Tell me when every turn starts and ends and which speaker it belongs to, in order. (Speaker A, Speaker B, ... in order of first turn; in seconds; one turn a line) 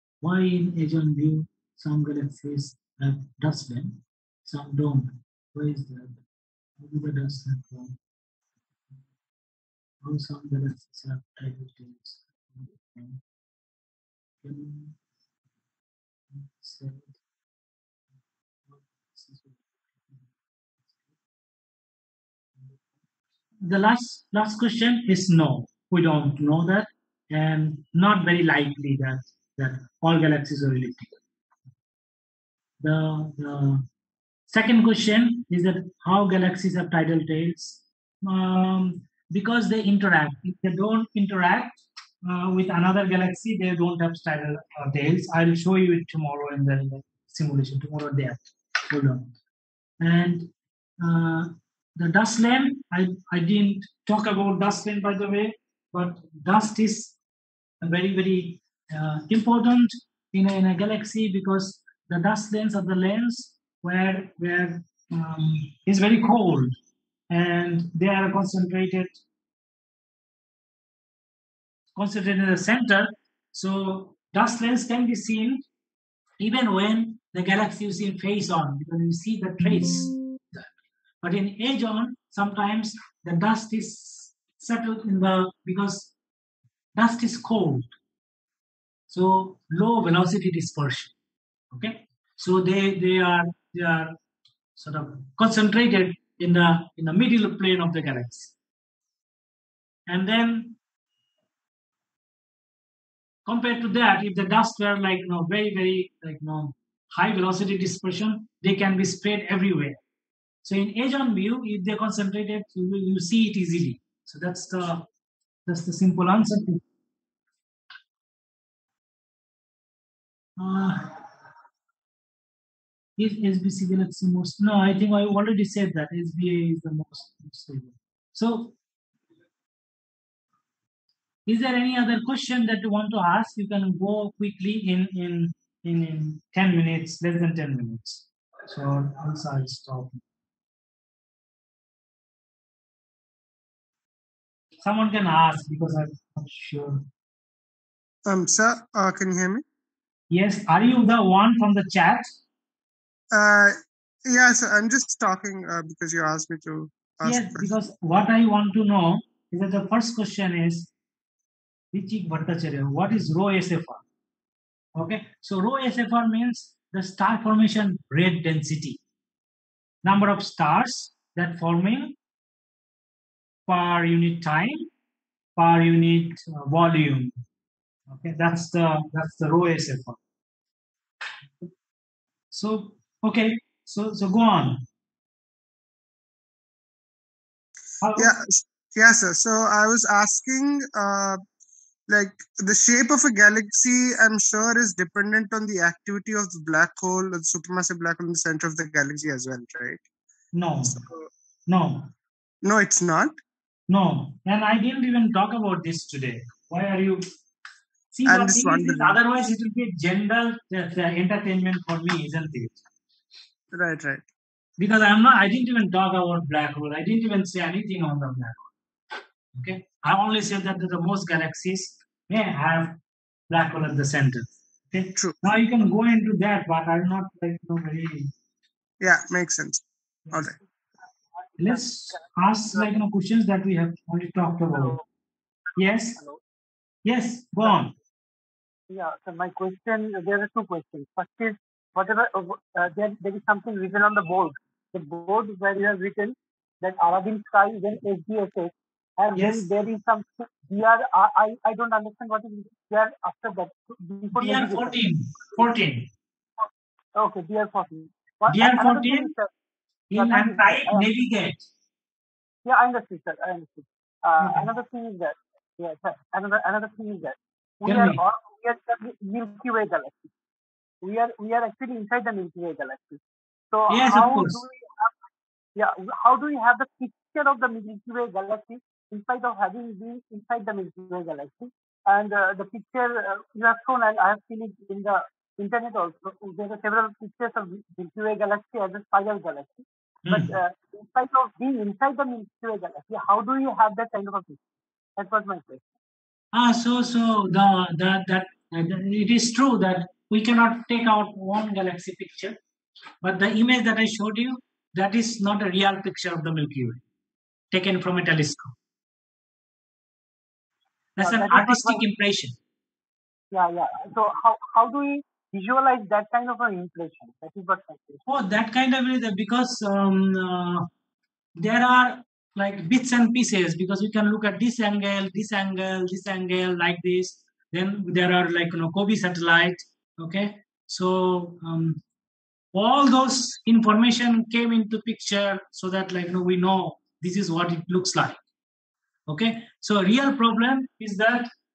Speaker A: 0.2-6.2
Speaker A: 6.8-8.0
Speaker A: 10.0-13.2
Speaker A: 14.4-14.9
Speaker A: 16.3-17.1
Speaker A: 18.7-20.2
Speaker A: 23.6-31.2
Speaker A: 32.8-33.8
Speaker A: 34.5-49.3
Speaker A: 50.0-50.5
Speaker A: 51.0-57.1
Speaker A: 57.8-66.7
Speaker A: 67.3-69.2
Speaker A: 71.9-75.6
Speaker A: 76.4-80.7
Speaker A: 81.2-86.1
Speaker A: 86.9-87.9
Speaker A: 89.1-91.1
Speaker A: 91.7-94.2
Speaker A: 94.8-98.5
Speaker A: 100.1-100.8
Speaker A: 103.5-110.0
Speaker A: 110.6-115.1
Speaker A: 115.7-116.8
Speaker A: 120.6-121.2
Speaker A: 123.2-128.7
Speaker A: 131.5-140.2
Speaker A: 144.8-147.0
Speaker B: 148.2-149.6
Speaker A: 150.3-152.3
Speaker B: 153.3-157.7
Speaker A: 157.2-160.9
Speaker A: 161.9-164.0
Speaker A: 164.9-169.0
Speaker A: 170.0-172.2
Speaker A: 173.7-174.9
Speaker A: 175.6-177.3
Speaker A: 178.1-180.2
Speaker A: 182.5-184.8
Speaker A: 188.0-188.3
Speaker B: 188.2-191.4
Speaker B: 192.1-200.0
Speaker A: 200.5-201.0
Speaker B: 200.8-201.3
Speaker A: 201.7-202.1
Speaker B: 202.6-203.4
Speaker A: 203.9-207.2
Speaker A: 208.1-212.8
Speaker B: 208.2-209.2
Speaker B: 213.7-214.2
Speaker A: 214.8-218.7
Speaker A: 219.5-223.0
Speaker A: 223.5-228.3
Speaker B: 229.0-230.5
Speaker C: 231.6-231.8
Speaker A: 231.6-235.0
Speaker A: 235.8-236.2
Speaker A: 237.0-237.9
Speaker C: 238.9-255.0
Speaker A: 249.3-249.7
Speaker A: 254.3-256.1
Speaker C: 257.1-259.5
Speaker A: 258.5-259.3
Speaker A: 260.1-261.6
Speaker C: 260.1-261.1
Speaker C: 262.6-270.3
Speaker A: 264.4-264.7
Speaker A: 267.8-268.2
Speaker C: 271.0-273.2
Speaker C: 273.7-275.1
Speaker A: 273.9-274.6
Speaker C: 275.7-294.6
Speaker A: 290.2-290.5
Speaker C: 295.2-295.8
Speaker A: 296.5-302.6
Speaker A: 303.2-307.0
Speaker A: 307.7-308.7
Speaker A: 311.1-312.6
Speaker C: 311.2-312.0
Speaker C: 313.5-318.2
Speaker A: 318.3-320.9
Speaker A: 321.6-332.0
Speaker A: 332.7-338.4
Speaker A: 339.3-341.5